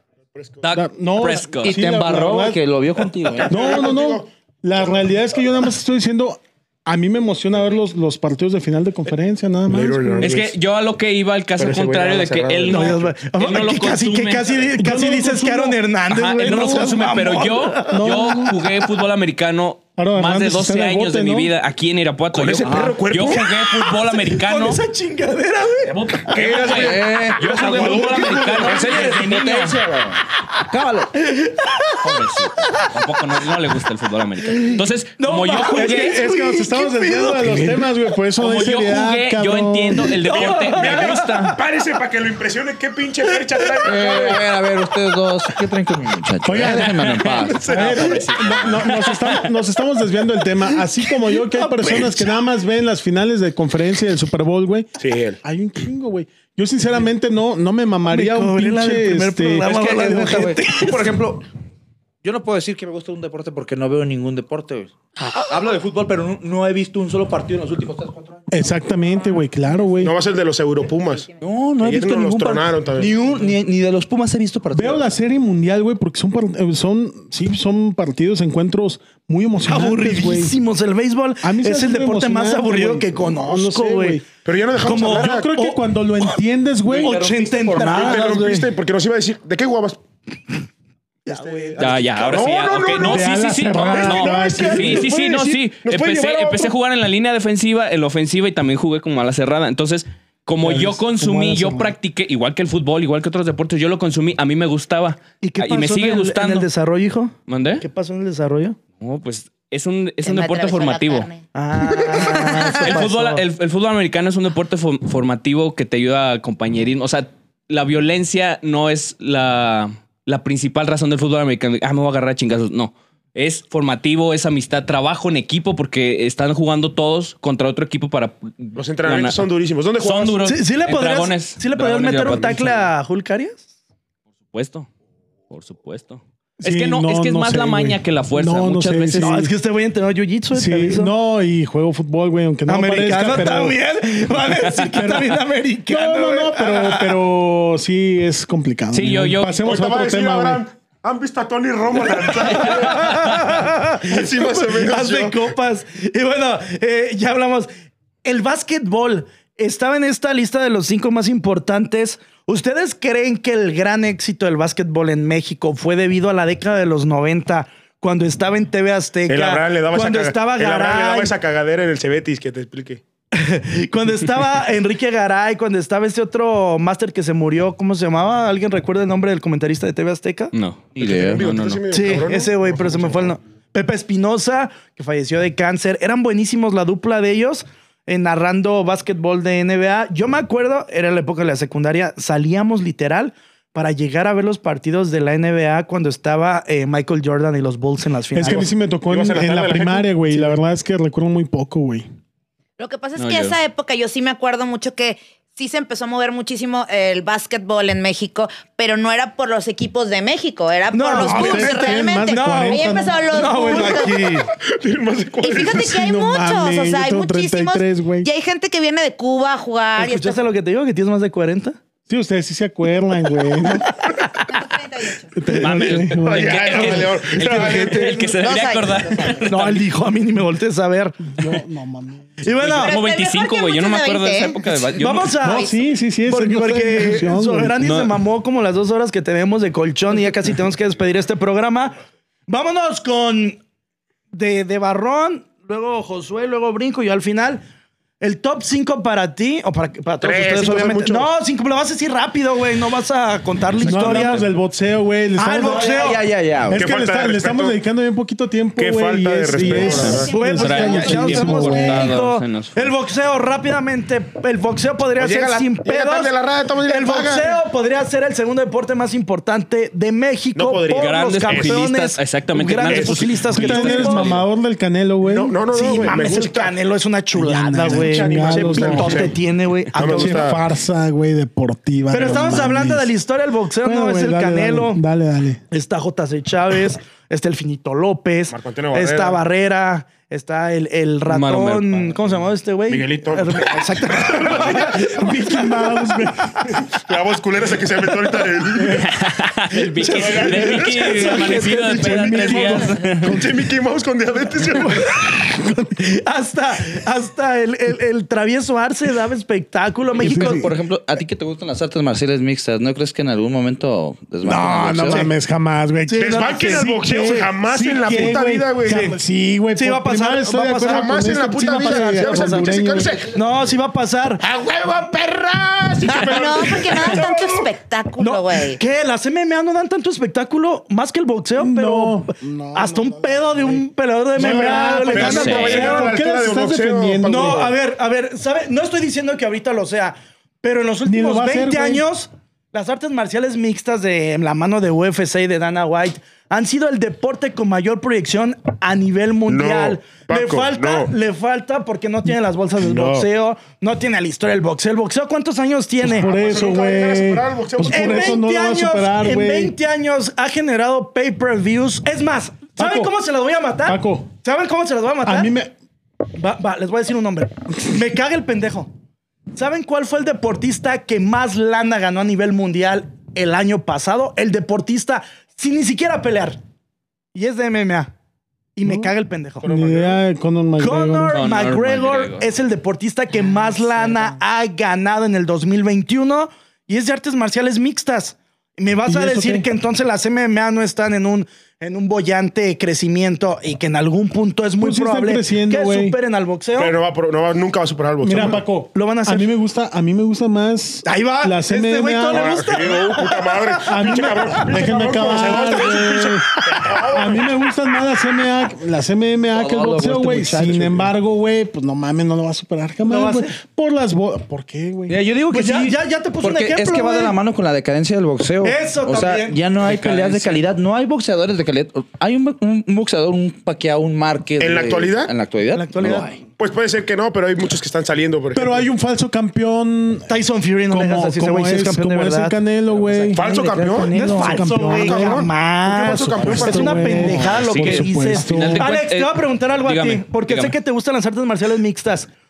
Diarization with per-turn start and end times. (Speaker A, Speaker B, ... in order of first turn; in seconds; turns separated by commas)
Speaker A: 0.3-0.7, Speaker B: 0.6-1.8, Speaker C: 0.7-2.6, Speaker D: 1.6-3.6, Speaker A: 3.3-4.3, Speaker C: 3.5-10.3, Speaker A: 9.7-10.6, Speaker B: 10.2-14.5, Speaker A: 11.6-13.1, Speaker E: 12.7-18.1, Speaker C: 14.8-15.8, Speaker B: 16.1-24.8, Speaker C: 16.4-16.9, Speaker C: 17.9-18.6, Speaker C: 20.0-21.5, Speaker A: 22.3-23.6, Speaker D: 22.6-23.0, Speaker E: 24.0-26.8, Speaker B: 25.9-29.8, Speaker A: 26.3-29.3, Speaker D: 26.6-31.1, Speaker E: 27.5-28.4, Speaker E: 31.1-33.2, Speaker B: 32.0-36.2, Speaker E: 34.5-37.8, Speaker C: 35.7-40.3, Speaker D: 37.4-37.8, Speaker B: 38.4-41.6, Speaker E: 40.1-41.6, Speaker A: 40.4-44.5, Speaker D: 43.8-48.6, Speaker C: 46.4-54.9, Speaker A: 47.3-48.6, Speaker B: 47.7-49.4, Speaker E: 51.1-52.3, Speaker A: 55.0-55.4, Speaker C: 55.4-59.7, Speaker E: 58.1-61.1, Speaker D: 59.6-61.5, Speaker D: 62.2-68.5, Speaker C: 68.5-70.1, Speaker A: 70.0-73.3, Speaker D: 71.4-75.0, Speaker C: 74.7-80.6, Speaker E: 79.7-84.2, Speaker C: 81.4-84.2, Speaker A: 84.4-85.5, Speaker E: 84.8-86.4, Speaker C: 85.0-87.2, Speaker D: 86.9-88.5, Speaker E: 87.0-88.7, Speaker A: 87.8-90.0, Speaker E: 91.3-92.5, Speaker A: 91.3-96.7, Speaker B: 91.8-106.7, Speaker C: 93.0-95.1, Speaker C: 100.6-102.0, Speaker E: 105.4-108.8, Speaker B: 107.5-107.8, Speaker B: 109.0-111.3, Speaker F: 110.2-113.0, Speaker E: 111.5-113.4, Speaker B: 112.6-129.4, Speaker A: 128.8-130.4, Speaker B: 130.0-132.9, Speaker E: 130.4-133.7, Speaker B: 134.5-134.9, Speaker B: 135.5-139.4, Speaker C: 136.6-139.5, Speaker E: 139.2-141.1, Speaker C: 140.5-143.8, Speaker E: 142.7-147.2, Speaker C: 144.6-150.6, Speaker B: 148.9-149.6, Speaker A: 149.6-155.5, Speaker E: 152.2-157.7, Speaker B: 152.6-153.0, Speaker E: 158.2-171.3, Speaker A: 169.3-173.0, Speaker E: 173.3-180.5, Speaker B: 180.5-181.8, Speaker D: 181.0-181.6, Speaker A: 181.0-183.3, Speaker E: 181.9-198.7, Speaker C: 198.3-202.1, Speaker A: 199.1-200.5, Speaker F: 202.8-214.3, Speaker B: 203.2-203.6, Speaker E: 210.9-214.5, Speaker C: 211.2-214.2, Speaker A: 214.5-216.0, Speaker F: 215.4-220.4, Speaker C: 215.6-218.3, Speaker E: 220.0-221.8, Speaker C: 222.1-223.9, Speaker E: 223.7-224.6, Speaker F: 224.4-225.3, Speaker C: 225.4-227.0, Speaker B: 225.5-229.9, Speaker E: 225.5-226.0, Speaker A: 226.3-228.6, Speaker E: 226.7-228.2, Speaker F: 228.4-229.2, Speaker E: 229.4-231.4, Speaker C: 231.3-232.4, Speaker E: 232.4-233.0, Speaker B: 232.6-235.3, Speaker F: 232.7-234.6, Speaker E: 235.0-235.7, Speaker C: 235.4-237.8, Speaker E: 236.3-241.9, Speaker B: 237.8-238.1, Speaker E: 242.5-243.6, Speaker E: 244.3-247.6, Speaker E: 248.2-254.4, Speaker A: 250.2-251.3, Speaker A: 253.8-254.5, Speaker C: 253.8-255.9, Speaker E: 255.4-256.2, Speaker D: 255.7-256.8, Speaker C: 256.7-262.2, Speaker A: 256.7-257.8, Speaker A: 258.8-260.3, Speaker E: 259.9-266.3, Speaker B: 260.5-262.9, Speaker F: 260.6-260.9, Speaker A: 265.2-267.6, Speaker E: 266.9-274.4, Speaker A: 270.6-271.8, Speaker B: 270.9-274.4, Speaker A: 272.8-273.3, Speaker C: 273.5-275.6, Speaker A: 275.2-276.8, Speaker E: 275.7-280.5, Speaker C: 277.3-279.3, Speaker A: 277.8-279.4, Speaker A: 279.9-280.6, Speaker C: 280.0-283.1, Speaker E: 282.1-285.0, Speaker C: 283.8-285.6, Speaker E: 285.7-296.1, Speaker A: 288.5-289.4, Speaker B: 291.3-292.2, Speaker A: 292.9-295.1, Speaker C: 294.4-296.8, Speaker A: 296.7-299.0, Speaker B: 298.8-303.4, Speaker E: 299.9-302.9, Speaker A: 300.1-301.3, Speaker C: 301.3-303.5, Speaker A: 303.2-305.4, Speaker E: 304.7-305.3, Speaker C: 305.5-306.0, Speaker E: 306.0-310.7, Speaker C: 310.2-310.7, Speaker D: 310.3-315.2, Speaker C: 314.4-323.2, Speaker E: 316.1-317.5, Speaker A: 316.2-319.1, Speaker E: 318.1-318.3, Speaker E: 318.9-319.2, Speaker E: 319.8-324.4, Speaker A: 320.9-323.4, Speaker A: 324.4-327.7, Speaker F: 326.1-328.8, Speaker E: 328.2-336.1, Speaker C: 331.6-333.8, Speaker C: 334.3-337.7, Speaker A: 334.4-337.8, Speaker B: 335.3-335.9, Speaker E: 337.3-356.3, Speaker C: 341.1-342.1, Speaker A: 349.5-351.1, Speaker A: 352.8-353.3, Speaker C: 356.0-359.8, Speaker A: 356.2-358.4, Speaker E: 357.9-365.5, Speaker C: 362.8-363.1, Speaker C: 363.9-364.3, Speaker C: 365.2-365.7, Speaker E: 366.3-368.9, Speaker E: 369.5-376.6, Speaker E: 377.3-378.1, Speaker E: 378.8-379.7, Speaker C: 378.8-379.1, Speaker A: 379.6-380.2, Speaker C: 379.6-381.4, Speaker E: 380.8-396.9, Speaker B: 381.3-382.5, Speaker D: 383.7-384.3, Speaker C: 389.1-389.7, Speaker C: 394.8-396.2, Speaker A: 396.8-398.6, Speaker C: 398.2-402.7, Speaker E: 398.4-399.5, Speaker E: 401.1-404.6, Speaker A: 402.3-407.5, Speaker C: 403.8-415.2, Speaker E: 405.3-406.9, Speaker D: 409.5-411.1, Speaker E: 413.0-413.6, Speaker D: 415.1-426.4, Speaker E: 415.5-417.4, Speaker E: 418.6-419.6, Speaker B: 419.8-420.6, Speaker A: 424.6-425.3, Speaker E: 425.7-426.3, Speaker A: 426.6-428.9, Speaker C: 428.5-430.3, Speaker E: 430.3-432.6, Speaker C: 430.9-433.4, Speaker D: 432.9-434.6, Speaker A: 433.3-437.4, Speaker E: 433.9-442.3, Speaker C: 434.4-435.5, Speaker C: 436.4-438.9, Speaker D: 437.0-437.7, Speaker B: 437.7-440.8